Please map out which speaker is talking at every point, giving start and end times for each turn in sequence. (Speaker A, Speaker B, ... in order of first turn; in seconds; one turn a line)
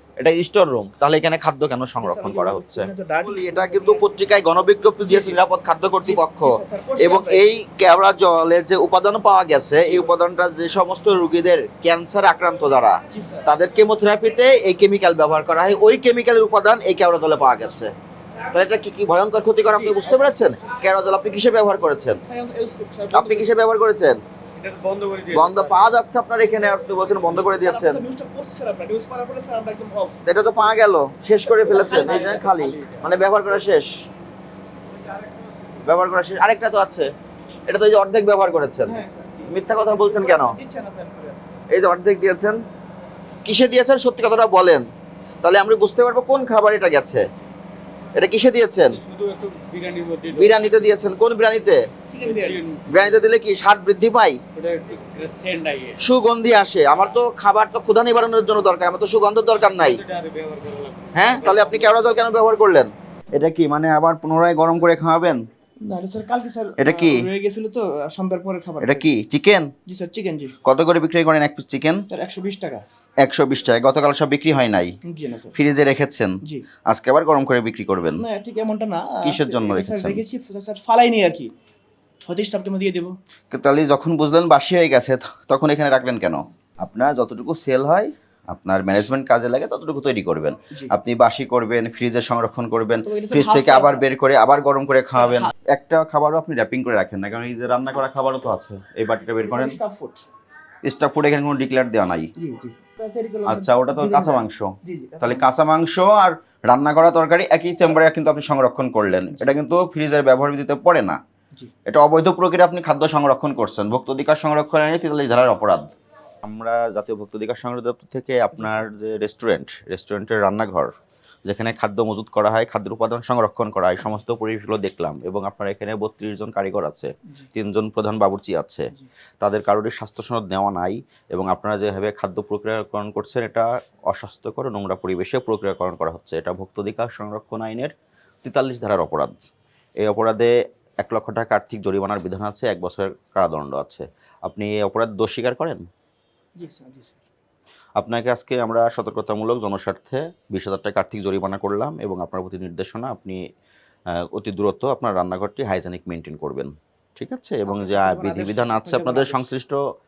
Speaker A: 0.2-17.9
Speaker B: 2.0-4.2
Speaker B: 5.0-5.4
Speaker B: 6.0-7.5
Speaker B: 9.8-10.1
Speaker B: 13.1-13.5
Speaker A: 18.5-22.2
Speaker B: 19.7-20.3
Speaker B: 22.2-23.6
Speaker A: 23.1-24.2
Speaker C: 24.6-26.0
Speaker A: 25.3-28.0
Speaker B: 27.3-30.8
Speaker A: 30.2-33.9
Speaker B: 31.4-32.5
Speaker C: 31.6-33.1
Speaker A: 35.8-37.1
Speaker A: 37.7-40.6
Speaker B: 38.8-41.4
Speaker A: 41.7-42.6
Speaker A: 43.4-44.8
Speaker A: 45.4-47.2
Speaker A: 48.1-49.0
Speaker C: 48.9-50.6
Speaker A: 50.3-51.9
Speaker B: 52.1-52.6
Speaker C: 52.2-53.2
Speaker A: 52.9-54.4
Speaker C: 54.5-56.0
Speaker A: 56.0-60.0
Speaker C: 59.7-62.1
Speaker A: 61.1-65.4
Speaker B: 65.8-69.1
Speaker A: 66.8-67.3
Speaker A: 68.8-69.7
Speaker B: 69.9-70.5
Speaker A: 70.6-72.0
Speaker B: 72.1-72.8
Speaker A: 73.2-74.9
Speaker B: 75.0-75.5
Speaker A: 75.5-76.4
Speaker A: 76.9-78.2
Speaker B: 78.2-81.5
Speaker A: 79.2-80.2
Speaker B: 82.2-83.2
Speaker A: 83.5-99.8
Speaker B: 93.0-94.1
Speaker B: 95.2-95.5
Speaker B: 99.4-100.3
Speaker A: 100.8-102.3
Speaker B: 102.3-105.5
Speaker A: 103.5-111.2
Speaker B: 109.3-109.6
Speaker A: 111.9-115.9
Speaker A: 116.4-120.9
Speaker A: 121.4-128.9
Speaker A: 129.4-139.3
Speaker A: 140.0-145.8
Speaker B: 146.6-147.2
Speaker A: 148.0-153.4
Speaker A: 154.1-159.8
Speaker B: 157.7-159.5